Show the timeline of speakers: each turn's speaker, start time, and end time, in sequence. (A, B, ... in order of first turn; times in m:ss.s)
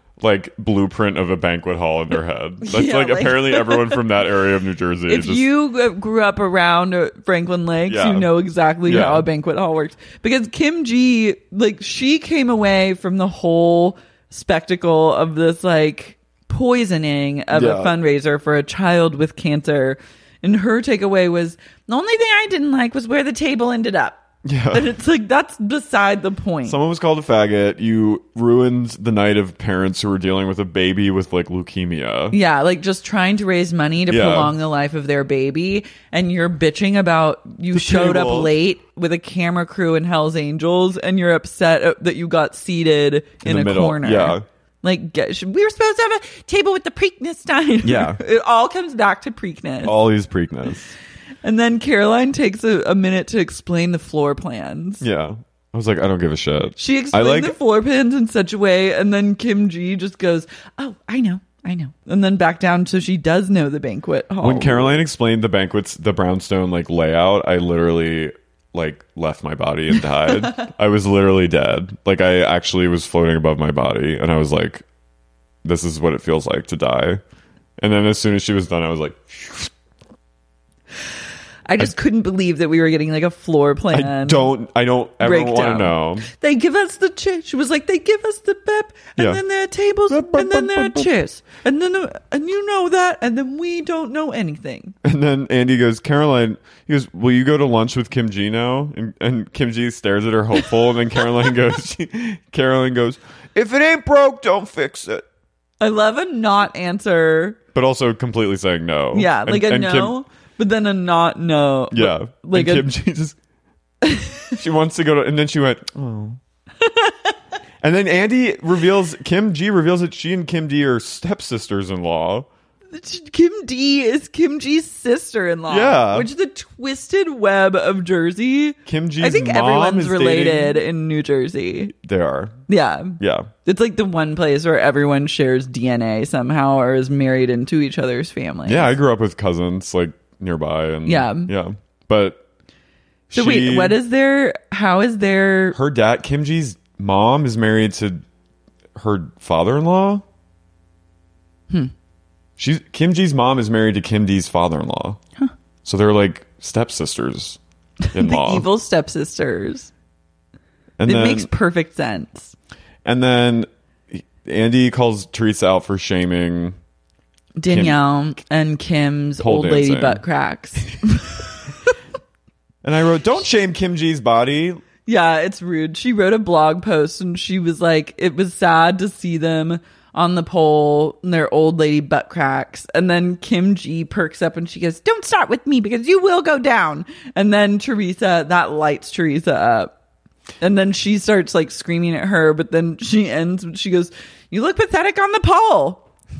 0:00.2-0:05.5 A
0:02.6-0:04.0 B
0:05.1-0:26.8 B
0:07.9-0:08.3 A
0:08.8-0:09.3 A
0:17.5-0:17.9 A
0:24.4-0:24.9 A
0:26.6-0:32.4 A
0:32.3-0:50.0 B
0:34.1-0:34.5 A
0:37.7-0:38.5 A
0:43.4-0:44.4 A
0:47.8-0:48.2 A
0:49.8-0:50.9 A
0:51.4-0:55.0 B
0:55.0-0:57.6 A
0:56.8-1:05.0 B
1:04.4-1:14.8 A
1:10.2-1:10.7 B
1:15.6-1:17.2 A
1:17.8-1:19.7 A
1:21.6-1:24.5 B
1:23.9-1:26.3 A
1:25.2-1:35.0 B
1:29.2-1:29.4 A
1:30.1-1:31.1 A
1:35.0-1:45.2 A
1:45.8-1:47.6 B
1:47.7-1:50.1 A
1:49.1-1:52.9 B
1:51.9-1:53.4 A
1:54.0-1:54.4 B
1:54.5-1:56.4 A
1:56.8-1:57.3 B
1:57.8-2:02.5 A
2:02.9-2:11.9 B
2:05.7-2:06.3 A
2:08.8-2:10.8 A
2:12.0-2:12.6 A
2:12.7-2:18.9 B
2:13.2-2:13.5 A
2:18.6-2:22.4 A
2:21.0-2:21.5 B
2:23.3-2:24.0 A
2:23.3-2:25.8 B
2:25.7-2:28.2 A
2:28.9-2:30.2 A
2:32.6-2:35.2 A
2:35.8-2:37.6 A
2:38.1-2:39.9 B
2:38.1-2:38.7 A
2:41.0-2:41.5 A
2:41.0-2:42.5 B
2:43.0-2:46.8 A
2:47.6-2:51.5 B
2:47.7-2:48.0 A
2:49.4-2:50.2 A
2:52.8-2:54.8 A
2:55.0-3:09.9 B
3:10.6-3:16.0 B